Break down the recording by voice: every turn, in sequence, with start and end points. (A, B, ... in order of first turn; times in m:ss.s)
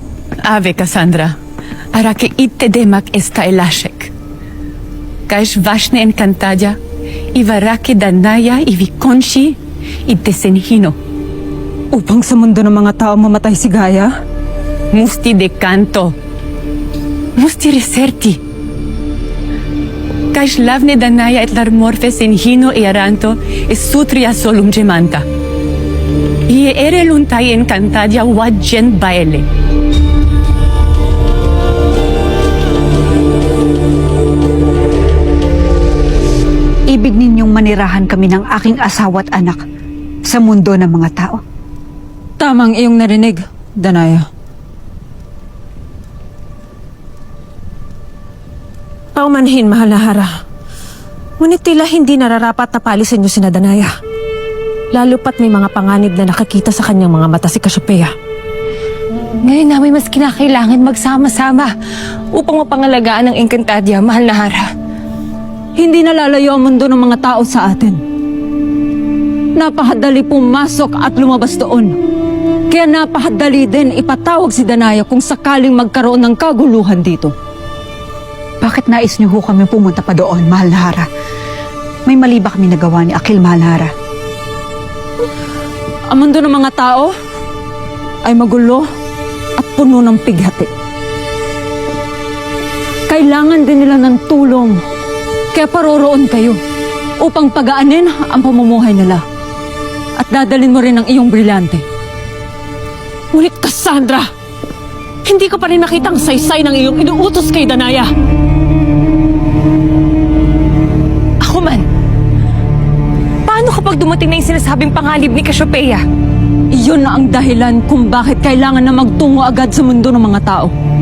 0:00.4-0:01.4 A
0:01.9-0:04.1 A
0:05.3-0:06.8 A
0:07.3-0:11.0 A
0:11.9-0:14.1 B
0:14.9-0:16.1 A
0:17.4-0:18.4 A
0:20.3-0:25.2 A
0:26.5-0:29.5 A
0:36.9-0:39.6 C
0:40.2-0:41.4 C
0:42.4-0:44.3 B
0:49.2-0:50.3 D
0:51.4-0:53.9 D
0:54.9-0:58.1 D
0:59.4-1:01.7 E
1:02.3-1:04.7 E
1:05.8-1:08.0 B
1:09.6-1:12.0 B
1:12.7-1:17.3 B
1:18.6-1:21.1 C
1:22.0-1:23.9 C
1:26.1-1:27.1 B
1:28.2-1:28.8 B
1:29.6-1:30.7 B
1:33.1-1:34.8 B
1:35.5-1:36.6 B
1:37.2-1:39.2 B
1:40.2-1:41.8 B
1:43.3-1:44.3 D
1:45.2-1:48.1 D
1:51.4-1:51.8 E
1:53.4-1:56.0 E
1:56.7-2:00.7 B